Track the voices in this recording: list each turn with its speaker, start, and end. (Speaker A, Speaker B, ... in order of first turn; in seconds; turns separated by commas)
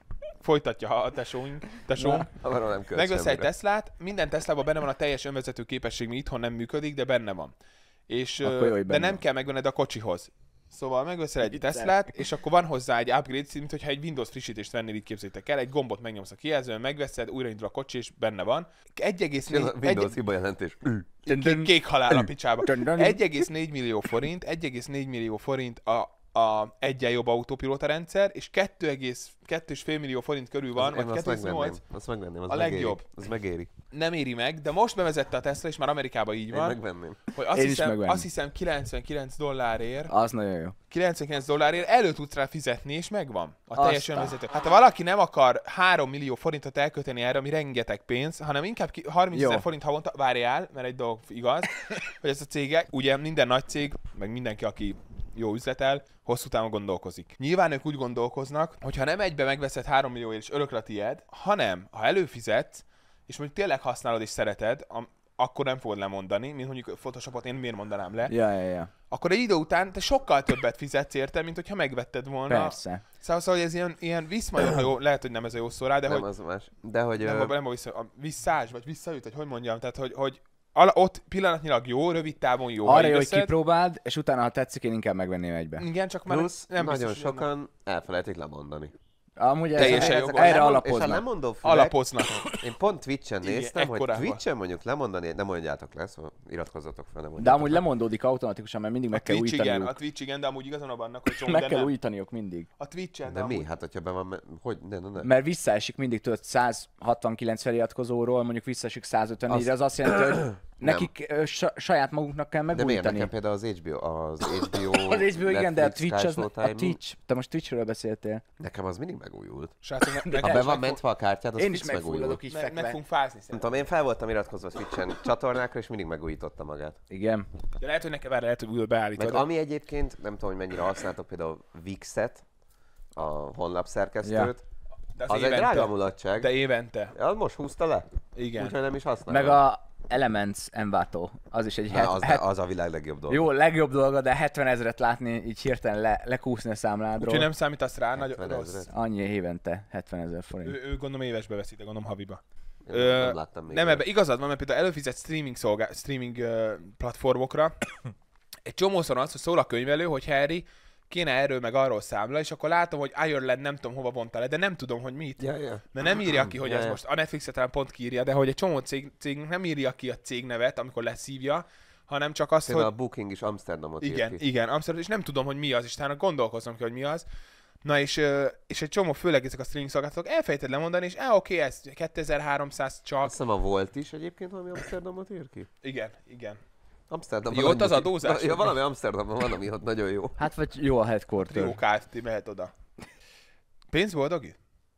Speaker A: 0.4-2.3, Speaker B: 1.9-2.3, Speaker C: 2.3-3.5, Speaker A: 2.9-7.5, Speaker A: 8.1-20.1, Speaker B: 8.4-9.2, Speaker B: 11.4-12.1, Speaker C: 19.4-21.1, Speaker A: 21.2-31.8, Speaker B: 21.3-23.4, Speaker C: 30.8-33.7, Speaker A: 32.5-33.0, Speaker A: 33.9-36.8, Speaker C: 36.5-37.2, Speaker A: 37.3-40.1, Speaker B: 37.5-38.3, Speaker B: 40.1-40.7, Speaker A: 40.9-68.3, Speaker B: 43.8-44.3, Speaker B: 49.3-49.6, Speaker B: 68.3-68.9, Speaker A: 69.1-76.2, Speaker B: 72.5-73.0, Speaker C: 76.1-77.5, Speaker A: 77.2-83.5, Speaker B: 82.8-85.8, Speaker A: 85.8-87.5, Speaker C: 86.3-88.9, Speaker B: 89.4-91.2, Speaker A: 89.8-90.6, Speaker C: 89.8-97.8, Speaker A: 91.6-92.6, Speaker A: 93.4-94.4, Speaker B: 97.4-99.9, Speaker A: 99.1-101.9, Speaker B: 101.3-102.7, Speaker A: 102.8-103.7, Speaker C: 103.3-105.3, Speaker B: 105.2-113.3, Speaker C: 109.5-111.1, Speaker C: 112.7-117.0, Speaker B: 114.7-118.4, Speaker C: 118.6-119.8, Speaker A: 119.8-121.0, Speaker B: 120.1-120.8, Speaker C: 120.4-122.4, Speaker B: 121.5-123.0, Speaker A: 122.5-123.6, Speaker C: 123.5-127.0, Speaker B: 127.1-127.5, Speaker A: 127.8-129.4, Speaker C: 129.2-132.4, Speaker C: 133.2-134.6, Speaker B: 134.2-134.5, Speaker A: 135.2-137.1, Speaker C: 135.3-136.5, Speaker C: 137.1-139.6, Speaker A: 138.3-138.7, Speaker B: 139.3-142.4, Speaker C: 141.9-143.5, Speaker B: 143.3-147.5, Speaker A: 147.2-148.9, Speaker C: 148.2-148.9, Speaker B: 148.9-150.8, Speaker A: 150.6-157.7, Speaker C: 152.8-154.0, Speaker A: 158.7-172.9, Speaker C: 165.4-167.0, Speaker C: 172.6-174.4, Speaker A: 174.0-177.2, Speaker A: 177.8-183.4, Speaker C: 183.2-185.7, Speaker A: 185.8-186.6, Speaker C: 187.1-190.4, Speaker A: 187.5-188.8, Speaker B: 190.4-191.8, Speaker A: 191.4-192.7, Speaker A: 193.9-194.6